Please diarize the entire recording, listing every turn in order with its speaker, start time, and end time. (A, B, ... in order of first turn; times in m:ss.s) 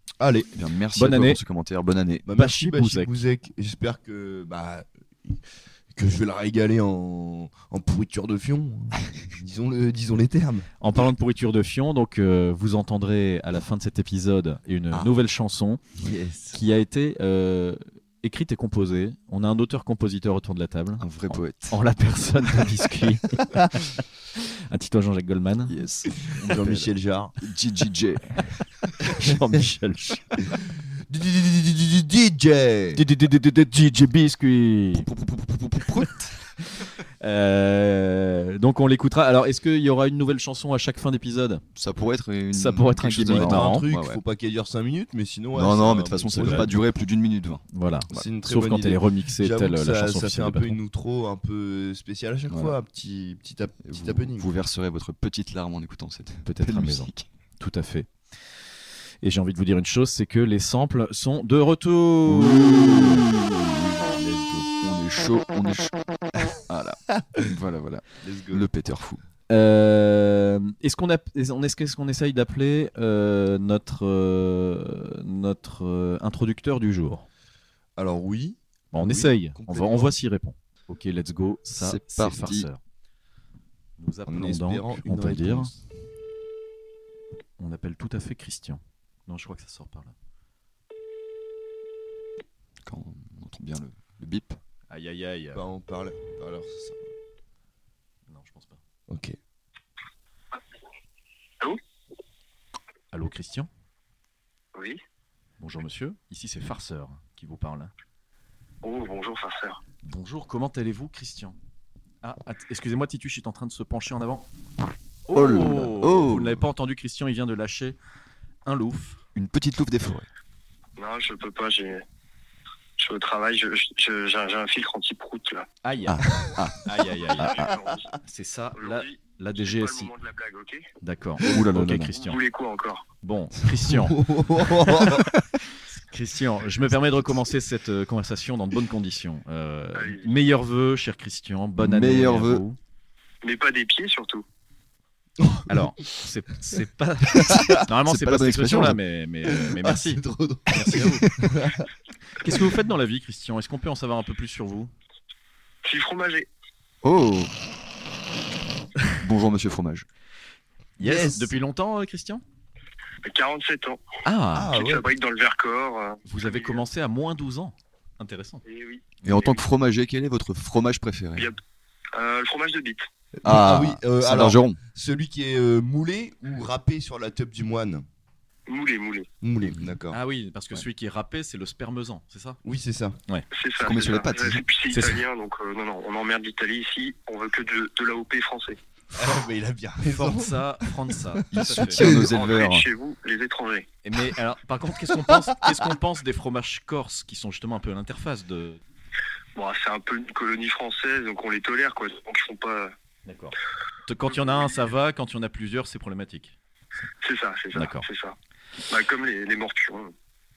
0:00.2-0:00.5 A
0:00.5-0:02.3 B
0:00.9-0:01.4 C
0:02.2-0:05.4 A
0:02.3-0:03.1 C
0:05.9-0:10.7 A
0:10.8-0:15.8 C
0:16.0-0:16.6 A
0:16.5-0:23.4 C
0:21.0-0:21.8 B
0:24.7-0:25.7 C
0:25.6-0:28.3 B
0:26.2-0:27.3 A
0:29.1-0:30.2 C
0:31.1-0:33.0 A
0:32.9-0:35.1 C
0:34.9-0:36.5 B
0:37.2-0:41.6 C
0:41.7-0:44.2 B
0:42.5-0:43.9 C
0:43.3-0:46.7 A
0:45.5-0:48.3 B
0:46.4-0:46.7 C
0:47.7-0:50.8 C
0:48.1-0:54.5 A
0:52.5-0:52.8 B
0:53.8-0:57.3 B
0:56.4-0:58.1 C
0:59.2-1:03.2 C
1:02.2-1:04.2 B
1:04.2-1:04.7 C
1:04.8-1:05.9 B
1:06.5-1:09.2 B
1:08.2-1:08.6 A
1:09.5-1:17.2 C
1:18.0-1:20.1 A
1:18.9-1:22.8 C
1:21.8-1:22.7 B
1:24.0-1:25.7 C
1:24.3-1:25.8 A
1:27.6-1:30.1 C
1:32.8-1:34.6 B
1:34.9-1:35.6 C
1:35.5-1:37.0 A
1:38.3-1:38.8 C
1:39.1-1:39.4 A
1:43.1-1:43.7 C
1:45.6-1:47.9 C
1:48.8-1:49.8 D
1:50.0-1:51.5 C
1:52.2-1:54.5 C
1:55.2-1:58.0 C
1:55.3-1:56.6 B
1:58.6-1:59.2 C
1:59.3-2:00.3 B
2:01.0-2:02.0 D
2:03.0-2:05.7 D
2:05.8-2:06.2 C
2:06.0-2:06.8 B
2:06.8-2:07.5 C
2:07.4-2:07.7 B
2:07.4-2:08.1 D
2:08.2-2:10.1 C
2:08.8-2:10.9 D
2:11.0-2:12.4 C
2:11.4-2:12.1 B
2:12.1-2:13.1 D
2:13.2-2:14.2 C
2:13.8-2:15.3 A
2:14.8-2:15.2 C
2:16.1-2:22.8 C
2:20.0-2:20.3 D
2:21.8-2:22.6 B
2:23.4-2:24.4 D
2:25.4-2:25.8 A
2:25.7-2:31.3 C
2:27.4-2:27.8 A
2:27.5-2:29.0 B
2:29.6-2:31.9 A
2:32.4-2:34.9 C
2:35.8-2:36.5 D
2:37.0-2:37.5 B
2:39.2-2:40.1 B
2:41.0-2:42.4 C
2:41.0-2:41.5 A
2:43.2-2:44.0 D
2:44.2-2:44.7 C
2:44.5-2:45.0 A
2:44.7-2:46.8 D
2:46.3-2:48.6 C
2:48.6-2:49.6 D
2:49.2-2:51.5 B
2:52.1-2:53.0 D
2:53.4-2:58.0 A
2:53.4-2:54.8 B
2:58.7-2:59.3 D
2:59.4-3:00.2 A
3:00.1-3:02.6 C
3:02.6-3:03.2 A
3:03.5-3:08.8 D
3:03.8-3:04.6 B
3:04.9-3:05.2 C
3:09.1-3:10.6 A
3:10.0-3:12.0 C
3:11.3-3:12.3 A
3:11.5-3:12.9 B
3:12.1-3:13.8 D
3:14.0-3:18.8 C
3:19.6-3:22.9 D
3:23.2-3:23.5 C
3:24.1-3:27.0 C
3:24.3-3:24.7 D
3:27.2-3:28.4 D
3:27.7-3:28.1 C
3:28.9-3:30.1 D